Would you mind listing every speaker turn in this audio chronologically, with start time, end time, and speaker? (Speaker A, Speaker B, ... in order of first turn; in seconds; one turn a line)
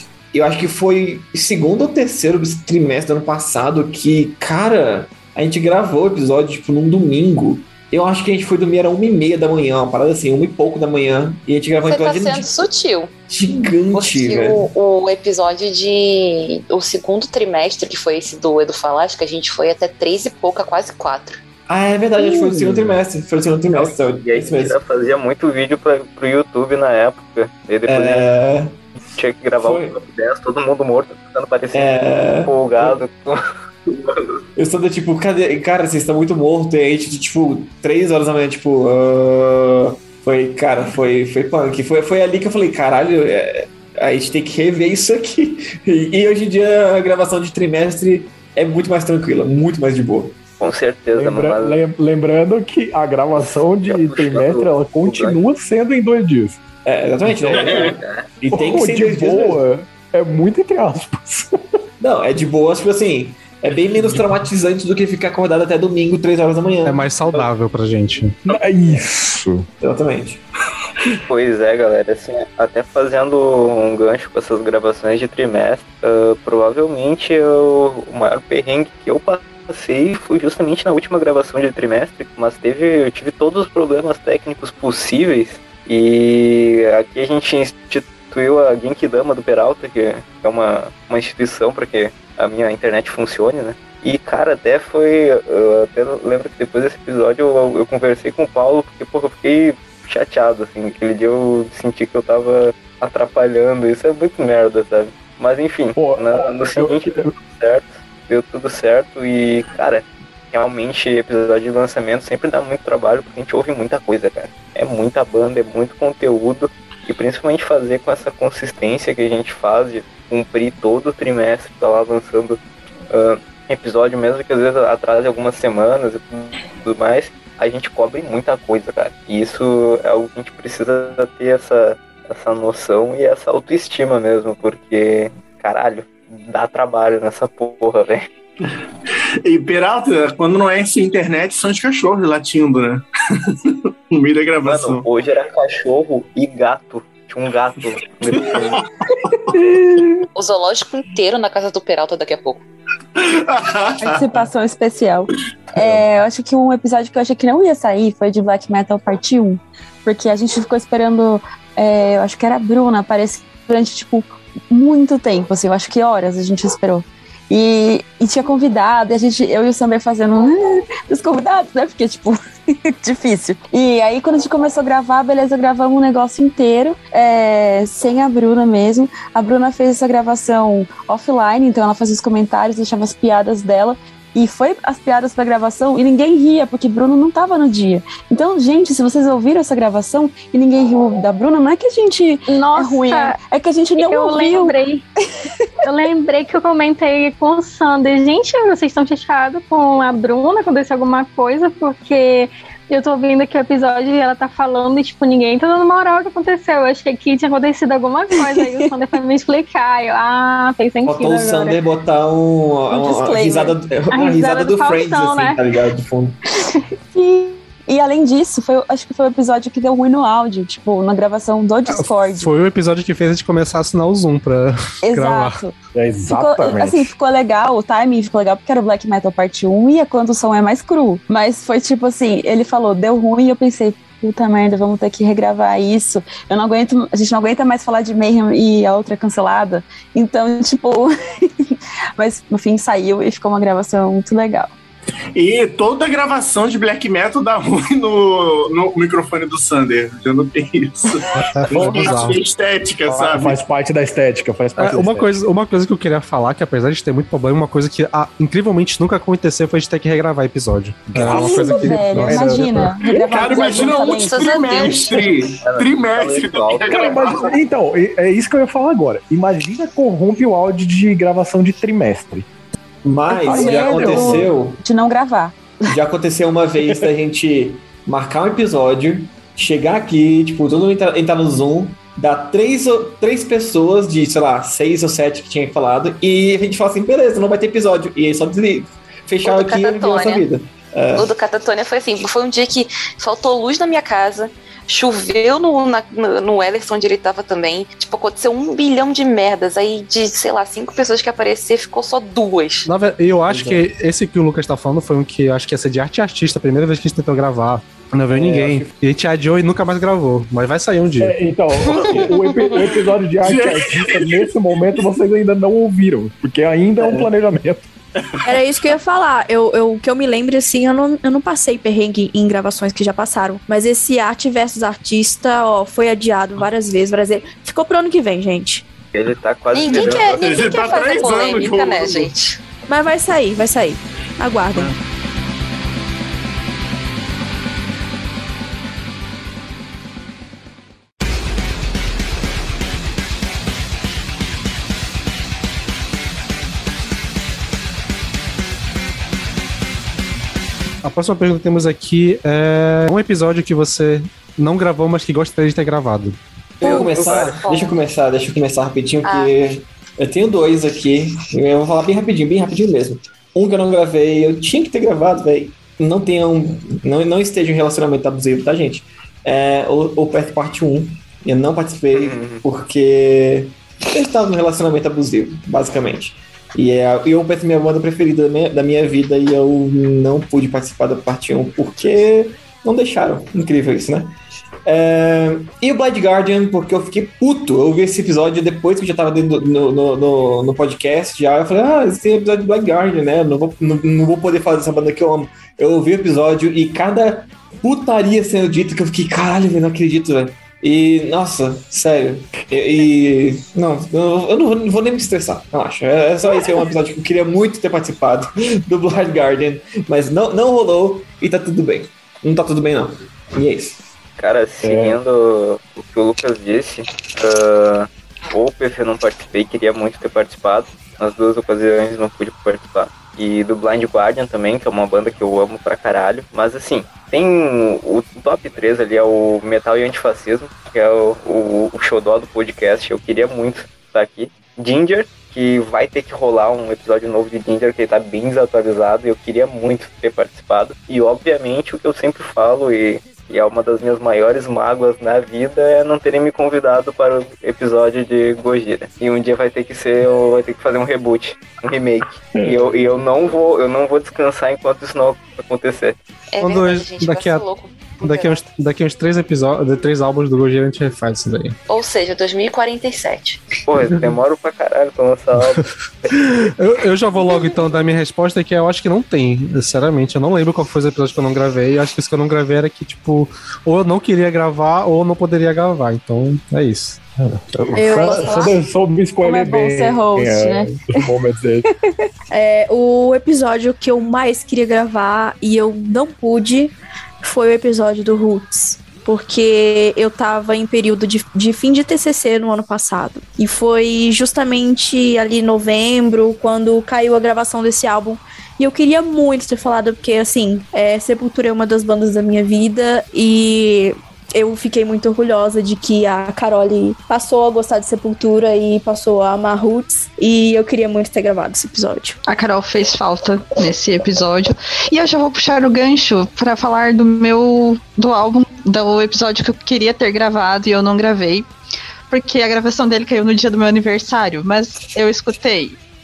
Speaker A: 0.3-12.6
Speaker B: 11.9-13.1
Speaker A: 13.3-14.7
Speaker B: 13.9-21.4
Speaker A: 21.7-24.8
Speaker C: 22.3-22.7
Speaker C: 23.7-28.3
Speaker A: 27.9-28.9
Speaker C: 29.1-34.2
Speaker A: 29.6-30.0
Speaker A: 31.7-33.0
Speaker A: 34.6-50.4
Speaker C: 50.6-51.8
Speaker D: 51.1-56.6
Speaker C: 53.9-55.4
Speaker A: 56.9-59.6
Speaker D: 57.2-57.9
Speaker C: 57.5-58.3
Speaker D: 58.5-61.5
Speaker A: 62.0-67.1
Speaker D: 64.0-64.3
Speaker E: 66.9-68.4
Speaker D: 68.5-69.7
Speaker A: 69.8-70.4
Speaker C: 71.3-122.6
Speaker D: 106.0-107.3
Speaker C: 123.1-138.3
Speaker F: 139.4-145.1
Speaker C: 144.7-148.8
Speaker B: 150.3-152.7
Speaker F: 153.2-154.4
Speaker G: 154.0-194.8
Speaker H: 192.5-193.4
Speaker H: 194.0-195.1
Speaker H: 195.8-211.8
Speaker A: 211.1-216.4
Speaker G: 212.9-213.8
Speaker H: 214.1-215.6
Speaker G: 217.1-222.5
Speaker E: 221.9-225.6
Speaker G: 225.0-225.7
Speaker D: 225.9-227.1
Speaker G: 226.3-244.7
Speaker F: 245.3-253.6
Speaker E: 251.4-252.4
Speaker D: 251.7-252.4
Speaker D: 253.1-255.4
Speaker E: 254.8-262.9
Speaker D: 261.1-263.6
Speaker G: 261.2-264.8
Speaker F: 263.2-267.5
Speaker B: 263.5-265.2
Speaker C: 265.5-267.5
Speaker D: 266.9-272.5
Speaker A: 273.0-274.8
Speaker G: 273.3-275.7
Speaker D: 273.5-274.5
Speaker A: 275.9-291.3
Speaker B: 289.4-290.4
Speaker B: 291.1-302.9
Speaker E: 302.9-311.3
Speaker A: 303.5-303.9
Speaker A: 308.3-309.0
Speaker D: 311.2-317.9
Speaker B: 312.4-312.8
Speaker F: 313.4-314.4
Speaker A: 317.0-317.3
Speaker I: 318.4-328.9
Speaker C: 329.1-330.4
Speaker B: 329.7-332.6
Speaker F: 330.0-332.3
Speaker I: 332.9-334.9
Speaker E: 351.0-356.4
Speaker A: 356.8-384.3
Speaker C: 356.8-357.6
Speaker B: 356.8-358.0
Speaker B: 359.2-359.5
Speaker C: 372.1-372.6
Speaker A: 384.9-414.0
Speaker C: 414.4-456.2
Speaker D: 414.8-415.2
Speaker D: 452.5-453.3
Speaker B: 456.5-458.6
Speaker E: 456.6-457.7
Speaker E: 458.2-461.8
Speaker B: 461.9-463.6
Speaker C: 463.9-466.3
Speaker E: 466.3-477.2
Speaker D: 477.7-481.8
Speaker I: 477.9-478.7
Speaker G: 478.1-478.7
Speaker G: 479.4-481.0
Speaker I: 482.5-512.4
Speaker J: 512.5-521.7
Speaker J: 522.3-526.0